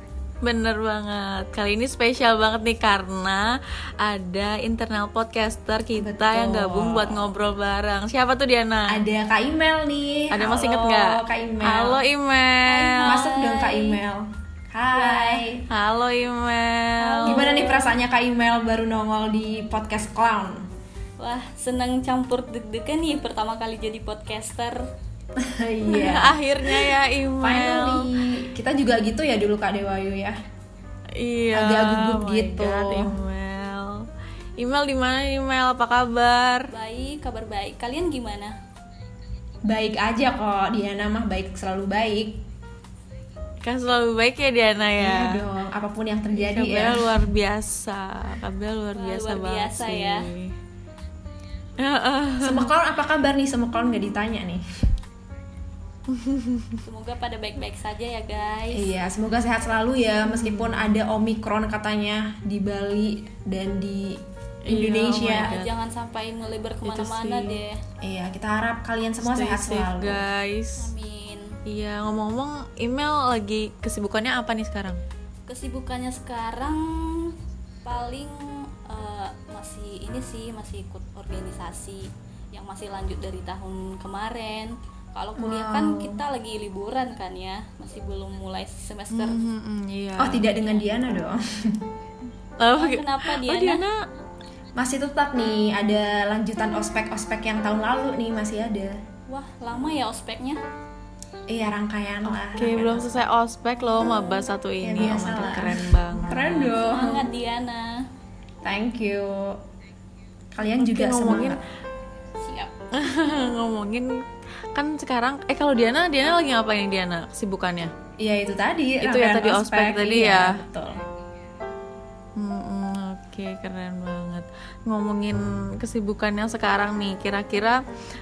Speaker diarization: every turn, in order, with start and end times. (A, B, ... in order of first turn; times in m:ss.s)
0:00.4-0:09.0 A
0:06.0-0:07.3 B
0:08.9-0:12.0 B
0:10.3-0:13.2 A
0:12.7-0:14.0 C
0:13.0-0:15.6 B
0:14.9-0:15.4 C
0:15.7-0:17.5 A
0:17.0-0:17.9 C
0:17.3-0:20.7 B
0:21.2-0:24.8 C
0:25.4-0:30.4 B
0:25.9-0:28.1 A
0:31.2-0:34.0 A
0:31.5-0:33.2 B
0:34.6-0:36.7 A
0:36.7-0:38.5 C
0:39.6-0:42.4 B
0:43.6-0:45.3 A
0:45.0-0:47.3 B
0:46.4-0:50.5 A
0:48.9-0:50.3 C
0:51.8-0:52.7 A
0:52.4-0:54.6 B
0:56.1-0:56.8 A
0:56.8-0:58.9 C
0:58.7-1:05.6 B
1:00.3-1:00.9 A
1:04.6-1:05.7 A
1:05.4-1:07.8 C
1:06.8-1:07.6 A
1:08.0-1:10.2 B
1:09.2-1:10.9 A
1:10.8-1:11.6 C
1:11.6-1:15.0 A
1:15.5-1:17.3 C
1:17.8-1:29.4 C
1:25.4-1:26.2 B
1:29.1-1:30.4 A
1:30.2-1:31.8 B
1:32.6-1:34.0 A
1:32.8-1:33.8 C
1:34.8-1:39.0 B
1:39.3-1:40.6 C
1:41.5-1:43.1 B
1:42.5-1:46.7 A
1:44.8-1:47.2 B
1:46.6-1:48.0 C
1:48.6-1:49.6 B
1:50.5-1:51.6 B
1:50.8-1:51.6 A
1:52.4-1:52.7 C
1:52.9-1:54.1 A
1:54.7-1:57.9 A
1:58.2-2:01.0 B
1:59.0-2:00.5 A
2:02.4-2:07.8 A